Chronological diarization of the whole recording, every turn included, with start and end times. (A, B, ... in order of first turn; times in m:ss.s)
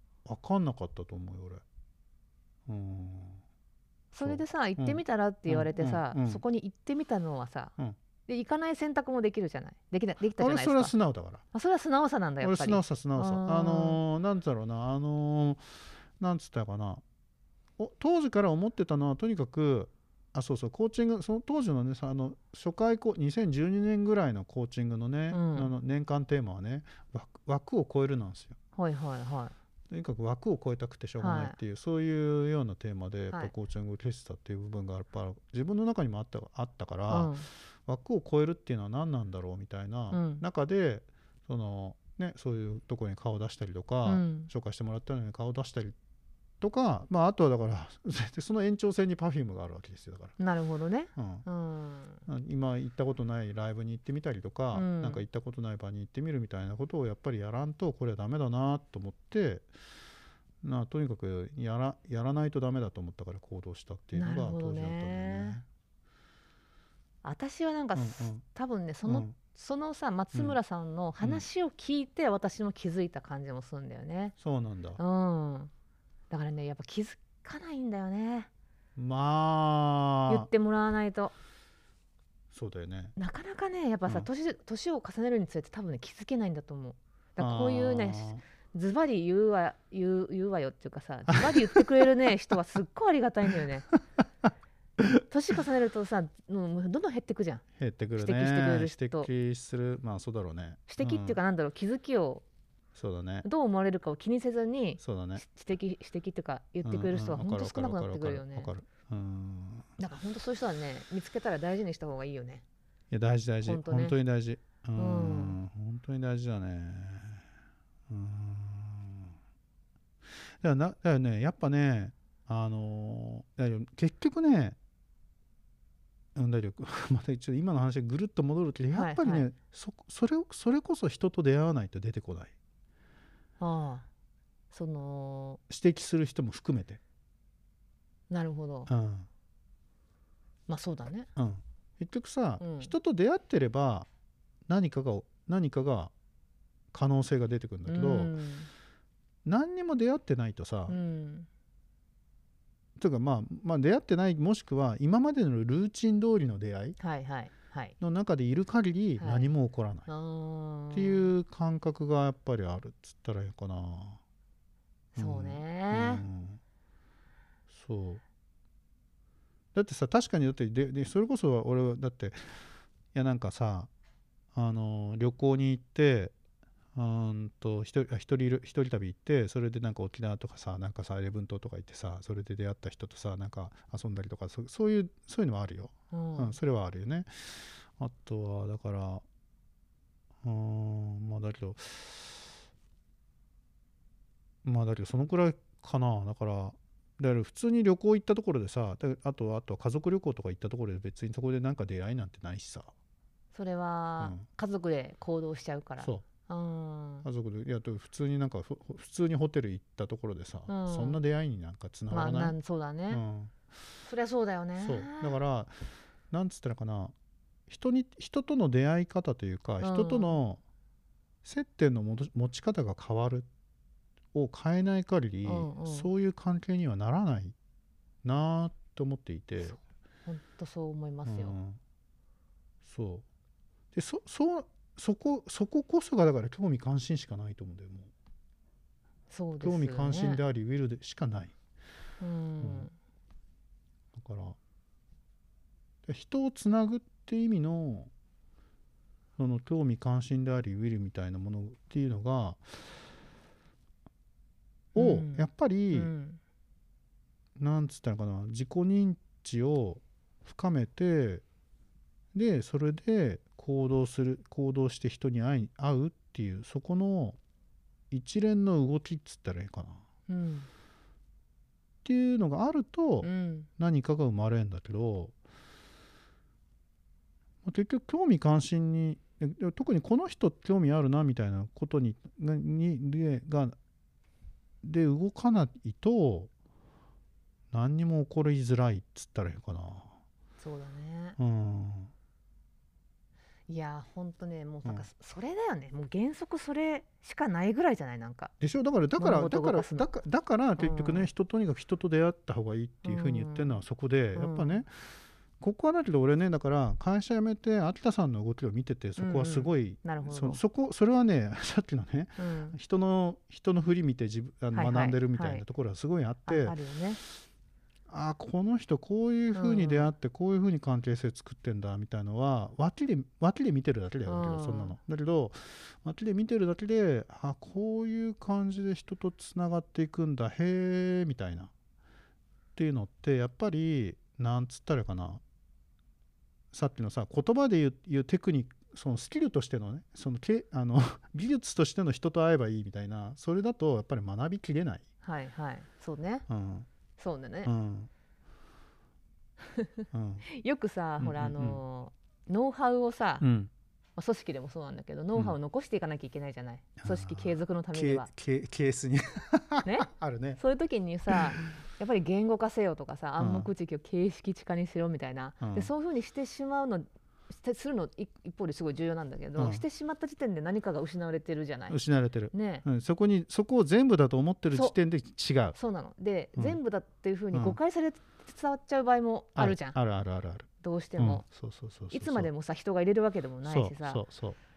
0:00.2-0:01.6 A
0:02.7-0:03.4 A
0:04.1-0:07.7 B
0:04.2-0:06.4 A
0:08.3-0:10.9 B
0:10.4-0:11.4 A
0:11.5-0:14.0 B
0:12.4-0:15.6 A
0:16.2-0:17.0 A
0:17.8-0:28.6 A
0:25.3-0:25.7 B
0:28.8-0:29.5 B
0:29.9-0:45.9 A
0:31.2-0:31.6 B
0:37.1-0:37.5 B
0:40.1-0:40.4 B
0:44.0-0:44.5 B
0:46.6-0:50.4 A
0:50.4-0:52.2 B
0:51.2-0:51.4 A
0:52.3-0:59.7 A
0:54.7-0:55.2 B
1:00.6-1:05.6 A
1:04.1-1:05.6 B
1:07.2-1:14.3 B
1:08.0-1:08.4 A
1:09.0-1:09.3 A
1:14.4-1:15.0 A
1:15.0-1:15.7 B
1:16.3-1:18.5 B
1:19.0-1:20.5 A
1:20.3-1:21.3 B
1:22.5-1:23.1 A
1:23.2-1:33.9 B
1:27.4-1:28.4 A
1:31.4-1:31.8 A
1:35.0-1:35.6 A
1:35.3-1:37.6 B
1:37.8-1:41.4 A
1:38.2-1:39.3 B
1:40.9-1:42.4 B
1:42.9-1:43.5 A
1:43.4-1:48.7 B
1:45.0-1:45.4 A
1:46.8-1:49.9 A
1:50.0-1:52.6 B
1:53.1-1:57.4 A
1:53.6-1:54.2 B
1:55.0-1:55.6 B
1:58.1-1:59.3 A
2:00.4-2:04.8 A
2:06.3-2:12.5 A
2:08.9-2:09.5 B
2:13.6-2:14.0 B
2:14.7-2:15.6 B
2:15.7-2:17.0 A
2:18.3-2:18.9 B
2:18.9-2:19.3 A
2:20.7-2:21.3 B
2:21.4-2:24.1 A
2:22.6-2:22.9 B
2:24.7-2:26.1 A
2:26.9-2:28.3 A
2:27.9-2:28.7 B
2:29.4-2:31.0 A
2:30.9-2:31.5 B
2:33.0-2:37.0 A
2:37.0-2:37.9 B
2:38.0-2:40.1 A
2:39.2-2:39.5 B
2:40.1-2:41.3 B
2:40.9-2:44.2 A
2:45.1-2:46.6 A
2:45.2-2:46.2 B
2:47.7-2:48.2 A
2:49.7-2:52.4 A
2:53.1-2:53.9 A
2:54.5-2:56.3 A
2:56.9-3:09.2 A
3:06.1-3:06.6 B
3:10.4-3:12.5 A
3:14.6-3:22.9 A
3:23.5-3:27.2 B
3:27.2-3:32.5 A
3:30.7-3:31.2 B
3:32.1-3:33.2 B
3:33.1-3:33.6 A
3:34.0-3:35.4 B
3:34.8-3:37.1 A
3:37.7-3:40.6 A
3:39.8-3:40.4 B
3:41.4-3:43.5 A
3:44.3-3:47.5 A
3:45.4-3:46.1 B
3:48.2-3:49.8 A
3:49.6-3:51.6 B
3:51.2-3:51.8 A
3:52.8-3:53.2 A
3:53.9-3:58.1 A
3:59.3-4:00.4 B
3:59.6-4:01.5 A
4:02.2-4:02.9 B
4:02.6-4:02.9 A
4:04.1-4:04.6 A
4:06.0-4:08.1 A
4:09.4-4:12.8 A
4:14.9-4:16.1 A
4:14.9-4:16.4 B
4:17.6-4:21.4 A
4:22.3-4:27.4 A
4:28.1-4:30.0 A
4:30.3-4:30.7 B
4:32.0-4:35.3 A
4:33.2-4:33.7 B
4:37.6-4:43.7 A
4:44.8-4:46.5 A
4:47.7-4:50.1 A
4:50.6-4:51.4 B
4:51.4-4:52.1 A
4:53.7-4:58.5 B
4:58.6-5:16.8 A
4:59.2-5:00.1 B
5:00.8-5:01.3 B
5:03.0-5:03.8 B
5:04.3-5:04.8 B
5:09.2-5:10.6 B
5:12.4-5:12.8 B
5:14.7-5:15.6 B
5:16.5-5:17.2 B
5:18.1-5:31.7 A
5:19.5-5:20.1 B
5:24.2-5:25.0 B
5:32.8-5:35.4 A
5:36.7-5:45.0 A
5:45.2-5:46.4 B
5:46.5-5:46.9 A
5:47.2-5:47.7 B
5:47.6-5:48.1 A
5:49.7-5:53.4 B
5:50.1-5:50.4 A
5:51.2-5:51.8 A
5:53.4-5:53.7 A
5:54.2-5:58.3 B
5:57.0-6:00.6 A
5:59.8-6:12.0 B
6:01.3-6:01.6 A
6:03.4-6:03.7 A
6:05.6-6:05.9 A
6:09.6-6:09.8 A
6:11.9-6:15.8 A
6:12.5-6:12.8 B
6:15.7-6:20.0 B
6:19.6-6:22.5 A
6:20.8-6:21.4 B
6:22.1-6:24.2 B
6:23.6-6:24.6 A